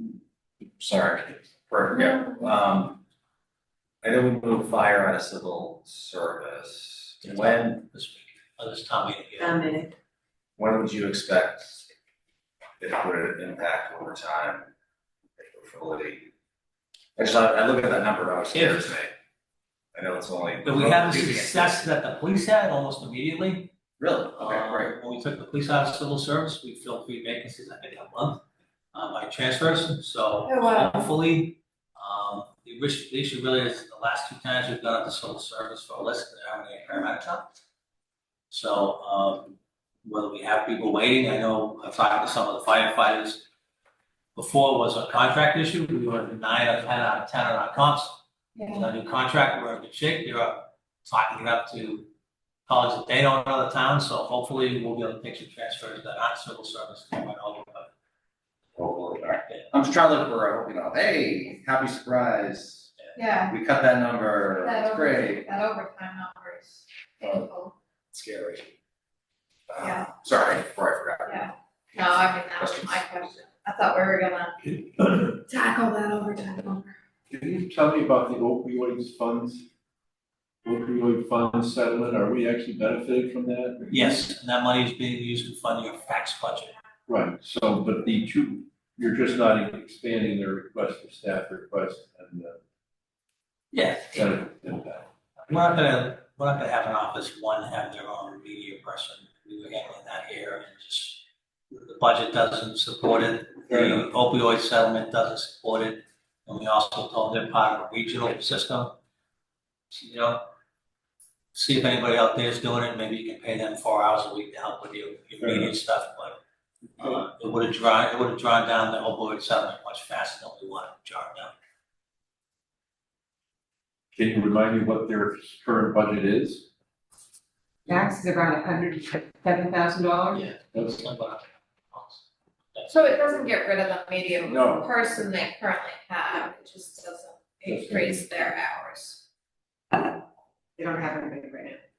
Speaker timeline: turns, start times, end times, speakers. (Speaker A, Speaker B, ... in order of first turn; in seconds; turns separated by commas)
Speaker A: 0.8-3.0, Speaker A: 4.0-7.8, Speaker B: 7.2-9.7, Speaker C: 9.4-9.9, Speaker A: 10.6-11.9, Speaker A: 12.8-14.7, Speaker A: 15.4-16.3, Speaker A: 17.2-19.1, Speaker B: 18.5-19.0, Speaker A: 19.9-21.9, Speaker B: 20.6-23.7, Speaker A: 24.0-24.9, Speaker B: 24.4-37.5, Speaker D: 30.5-31.1, Speaker B: 38.5-43.5, Speaker B: 44.4-48.2, Speaker D: 48.5-48.9, Speaker B: 48.7-52.1, Speaker B: 52.7-57.9, Speaker A: 58.8-65.5, Speaker D: 63.2-63.5, Speaker D: 64.6-67.7, Speaker A: 67.2-67.5, Speaker A: 68.1-68.7, Speaker A: 69.7-71.5, Speaker D: 69.8-70.1, Speaker D: 71.3-74.5, Speaker A: 72.6-73.0, Speaker B: 74.7-75.1, Speaker D: 75.3-76.9, Speaker E: 77.3-79.7, Speaker E: 80.6-83.9, Speaker B: 83.9-86.7, Speaker E: 87.1-92.6, Speaker B: 93.7-94.3, Speaker E: 94.1-95.0, Speaker B: 95.4-108.9, Speaker E: 103.7-104.0, Speaker B: 109.9-110.5, Speaker B: 111.5-116.4, Speaker E: 115.4-115.7, Speaker B: 117.0-121.5, Speaker E: 124.1-126.7, Speaker C: 127.8-130.4, Speaker B: 130.3-133.2, Speaker E: 130.7-131.0, Speaker D: 132.9-139.2, Speaker E: 134.4-134.9, Speaker E: 137.7-138.1, Speaker C: 140.8-141.8